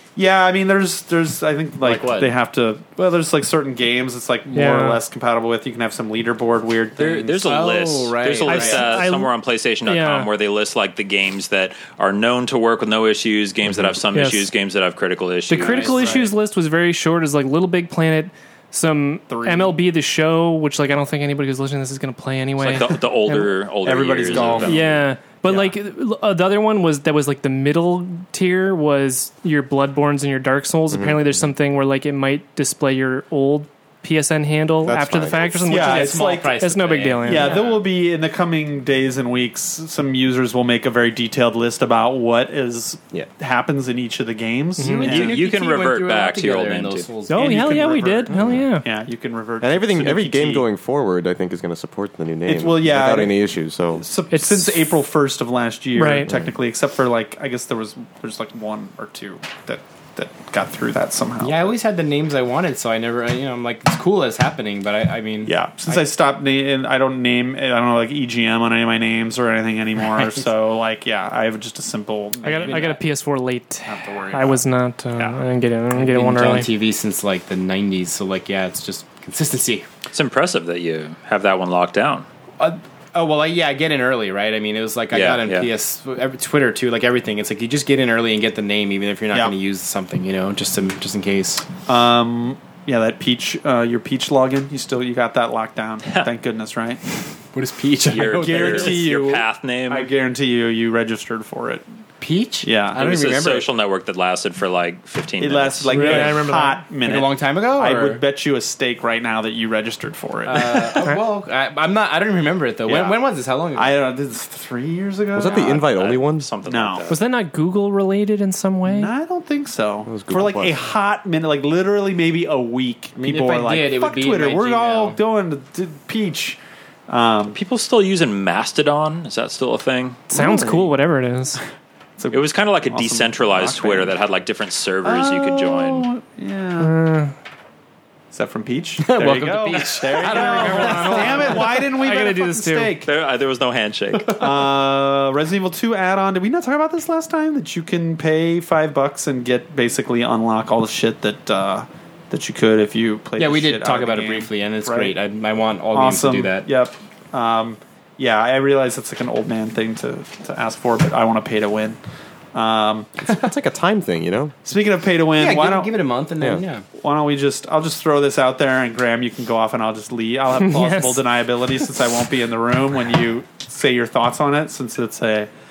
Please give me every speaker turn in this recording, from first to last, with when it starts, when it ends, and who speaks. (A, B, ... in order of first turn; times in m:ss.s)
0:00.2-0:07.4 A
0:01.8-0:02.3 B
0:04.5-0:05.0 C
0:07.0-0:16.2 D
0:07.4-0:09.0 B
0:08.5-0:09.3 C
0:09.8-0:10.3 C
0:14.1-0:14.5 C
0:15.5-0:23.6 C
0:15.8-0:16.3 A
0:19.3-0:19.8 A
0:22.6-0:24.8 D
0:23.8-0:24.9 A
0:24.3-0:25.0 B
0:24.6-0:37.6 C
0:25.5-0:25.7 A
0:30.9-0:31.4 E
0:34.8-0:35.7 E
0:35.4-0:37.8 B
0:35.7-0:36.6 A
0:37.2-0:45.4 A
0:44.8-0:45.1 C
0:44.8-0:48.3 B
0:45.0-0:47.1 D
0:47.3-0:48.9 C
0:47.4-0:50.7 A
0:48.3-0:48.7 E
0:49.6-0:54.1 E
0:52.5-0:53.4 A
0:53.9-1:01.8 A
0:54.3-0:54.8 C
0:56.0-0:56.3 C
0:56.3-0:56.5 E
1:01.4-1:06.0 B
1:05.4-1:13.0 A
1:12.4-1:16.7 C
1:13.8-1:14.6 A
1:15.9-1:19.9 B
1:20.1-1:22.3 D
1:22.6-1:31.7 B
1:25.1-1:25.7 D
1:31.9-1:37.0 A
1:37.5-1:39.1 B
1:38.1-1:40.1 D
1:38.4-1:41.8 A
1:42.2-1:43.7 B
1:42.6-1:43.0 A
1:43.0-1:46.2 D
1:45.4-1:51.2 A
1:45.9-1:48.2 B
1:46.0-1:46.8 C
1:50.4-1:54.0 B
1:52.9-1:53.2 A
1:53.8-1:55.9 A
1:55.3-1:56.5 E
1:55.6-1:57.2 D
1:56.7-1:57.2 A
1:57.1-1:59.1 C
1:58.8-2:07.6 A
2:00.1-2:00.8 E
2:03.2-2:05.2 B
2:07.5-2:10.3 D
2:10.3-2:11.6 C
2:10.3-2:10.8 A
2:12.2-2:14.2 A
2:12.3-2:16.1 D
2:15.0-2:17.0 A
2:16.8-2:17.3 C
2:18.3-2:23.1 A
2:19.0-2:21.9 B
2:20.2-2:23.0 C
2:23.0-2:24.4 D
2:24.4-2:35.2 A
2:33.4-2:36.7 B
2:35.9-2:42.0 A
2:42.5-2:43.2 A
2:43.2-2:44.6 E
2:44.6-2:46.0 A
2:45.4-2:46.9 B
2:47.0-2:55.5 A
2:50.6-2:51.2 C